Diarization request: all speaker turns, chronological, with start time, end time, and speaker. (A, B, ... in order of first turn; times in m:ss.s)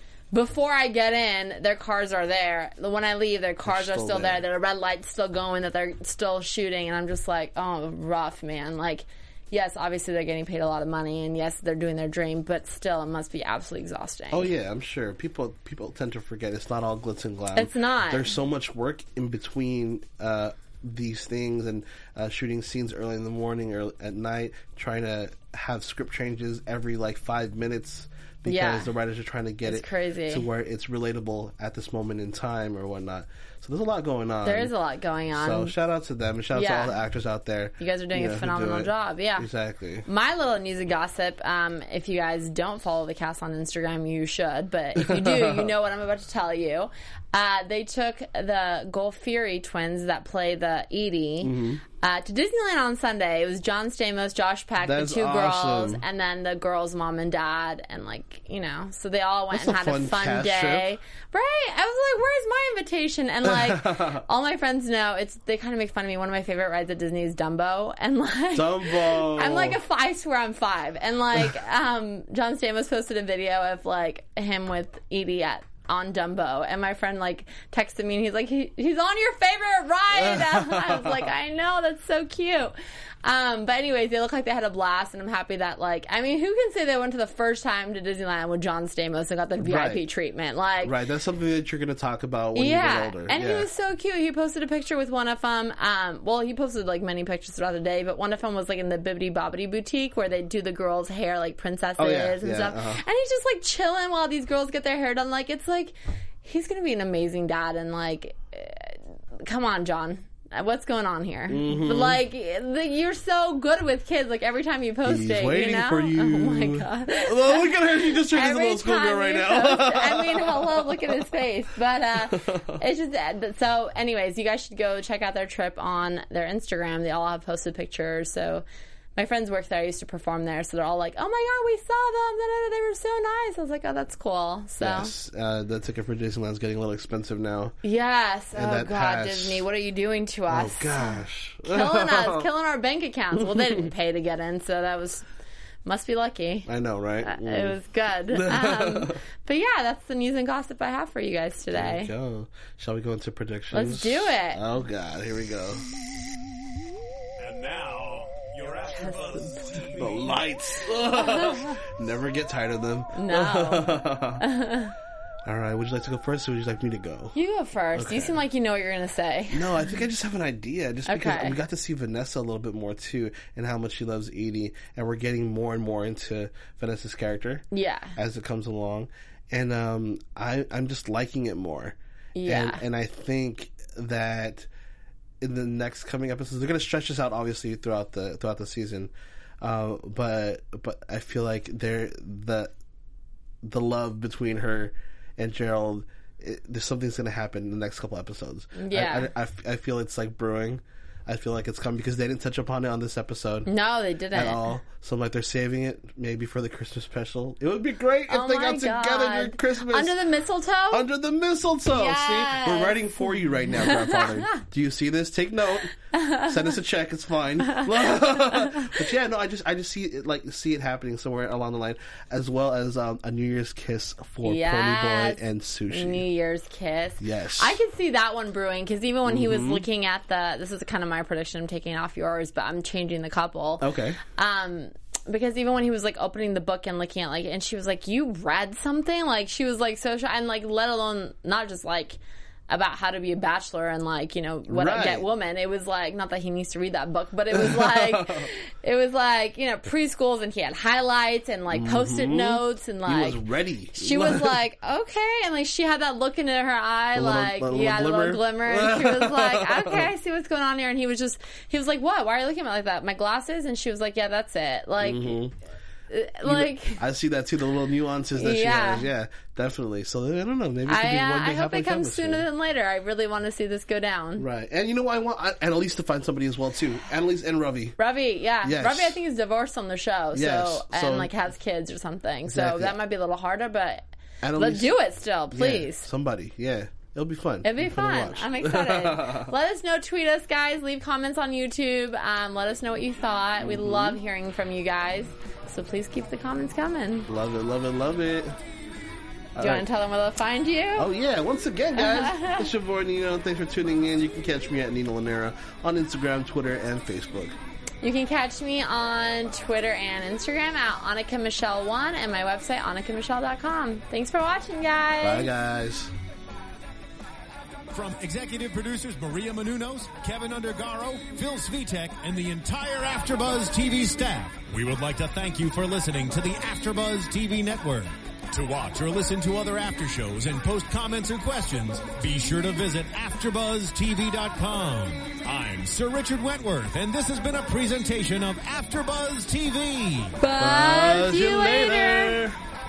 0:00.3-0:14.5 A
0:03.6-0:04.4 B
0:14.3-0:34.7 B
0:17.5-0:18.3 A
0:28.4-0:28.9 A
0:29.6-0:30.5 A
0:34.4-0:35.8 A
0:35.3-0:40.1 B
0:36.5-0:37.0 A
0:37.8-0:39.5 A
0:40.0-1:31.0 A
0:45.0-0:45.7 B
0:51.4-0:51.8 B
0:54.8-0:56.0 B
0:59.5-1:00.9 B
1:03.4-1:04.2 B
1:08.5-1:09.8 B
1:20.1-1:21.3 B
1:29.6-1:30.0 B
1:30.8-1:33.7 B
1:32.5-2:08.6 A
1:42.0-1:43.0 B
1:51.5-1:52.2 B
1:55.0-2:01.0 B
2:02.2-2:02.8 B
2:09.2-2:15.1 A
2:14.8-2:17.8 B
2:17.8-2:25.2 A
2:18.5-2:19.6 B
2:20.5-2:22.5 B
2:25.8-2:26.7 A
2:26.7-2:27.8 B
2:27.2-2:32.1 A
2:28.3-2:29.2 B
2:31.7-2:35.8 B
2:33.7-2:34.6 A
2:37.4-2:40.4 C
2:39.9-2:44.4 B
2:41.2-2:41.7 A
2:43.1-2:44.9 A
2:45.5-2:47.3 B
2:47.3-2:49.8 A
2:47.9-2:48.4 B
2:49.5-3:04.7 B
2:51.0-2:51.6 A
2:57.7-2:58.1 A
3:02.3-3:02.8 A
3:05.4-3:12.7 B
3:13.6-3:23.7 B
3:18.8-3:19.3 A
3:23.7-3:24.7 A
3:24.3-3:30.2 B
3:28.3-3:31.1 A
3:30.9-3:46.2 B
3:31.9-3:33.2 A
3:33.7-3:34.5 A
3:36.1-3:36.5 A
3:37.7-3:38.1 A
3:44.4-4:13.4 A
3:47.2-3:47.8 B
3:49.2-3:49.8 B
3:53.8-3:54.2 B
4:04.7-4:05.3 B
4:07.5-4:08.5 B
4:11.7-4:14.6 B
4:13.9-4:25.4 A
4:17.1-4:20.1 B
4:25.0-4:25.5 B
4:26.1-4:27.0 A
4:26.4-4:32.5 B
4:28.3-4:29.1 A
4:30.9-4:34.5 A
4:34.4-4:38.0 B
4:38.0-4:46.1 A
4:38.6-4:39.2 B
4:40.3-4:41.3 B
4:42.5-4:43.0 B
4:44.4-4:44.9 B
4:45.5-4:49.5 B
4:47.6-4:57.3 A
4:53.6-4:54.2 B
4:57.3-4:58.6 B
4:59.5-4:59.9 B
4:59.6-5:01.1 A
5:01.0-5:07.6 B
5:01.9-5:02.7 A
5:08.0-5:15.5 A
5:15.2-5:16.1 B
5:17.9-5:40.4 C
5:40.4-5:42.4 A
5:40.6-5:42.6 B